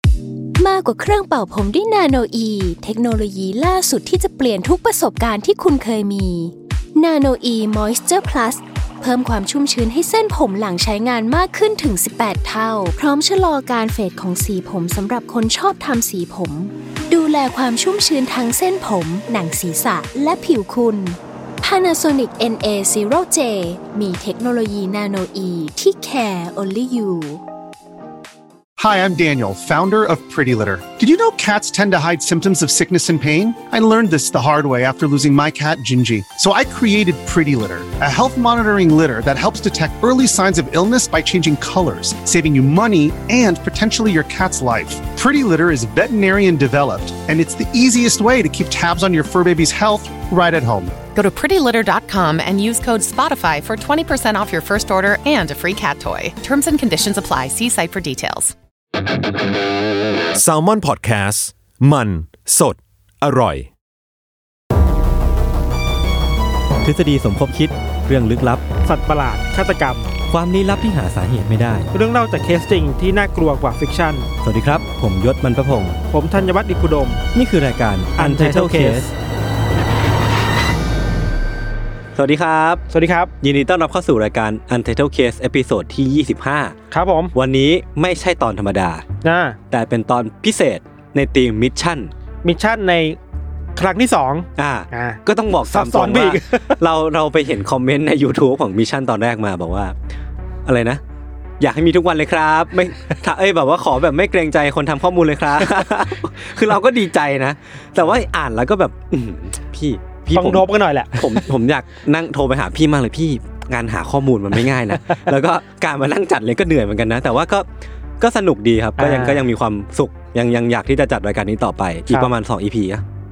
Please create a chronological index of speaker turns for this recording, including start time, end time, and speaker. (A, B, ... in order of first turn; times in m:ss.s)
0:00.6-0:27.4 A
0:28.8-0:51.0 B
0:51.1-0:58.5 C
1:00.3-1:03.7 D
1:06.8-1:08.6 E
1:08.8-1:10.0 F
1:10.3-1:11.9 E
1:11.9-1:14.3 F
1:14.4-1:16.0 E
1:16.1-1:17.2 F
1:17.3-1:19.1 E
1:18.2-1:19.1 F
1:22.2-1:22.8 E
1:22.9-1:23.3 F
1:23.4-1:26.8 E
1:26.9-1:27.3 F
1:27.3-1:29.0 E
1:29.2-1:29.6 F
1:29.7-1:32.1 E
1:32.4-1:33.2 F
1:33.8-1:36.8 F
1:34.6-1:40.0 E
1:40.6-1:41.0 E
1:41.6-1:57.6 E
1:50.3-1:51.5 F
1:58.2-2:03.0 E
1:59.0-1:59.4 F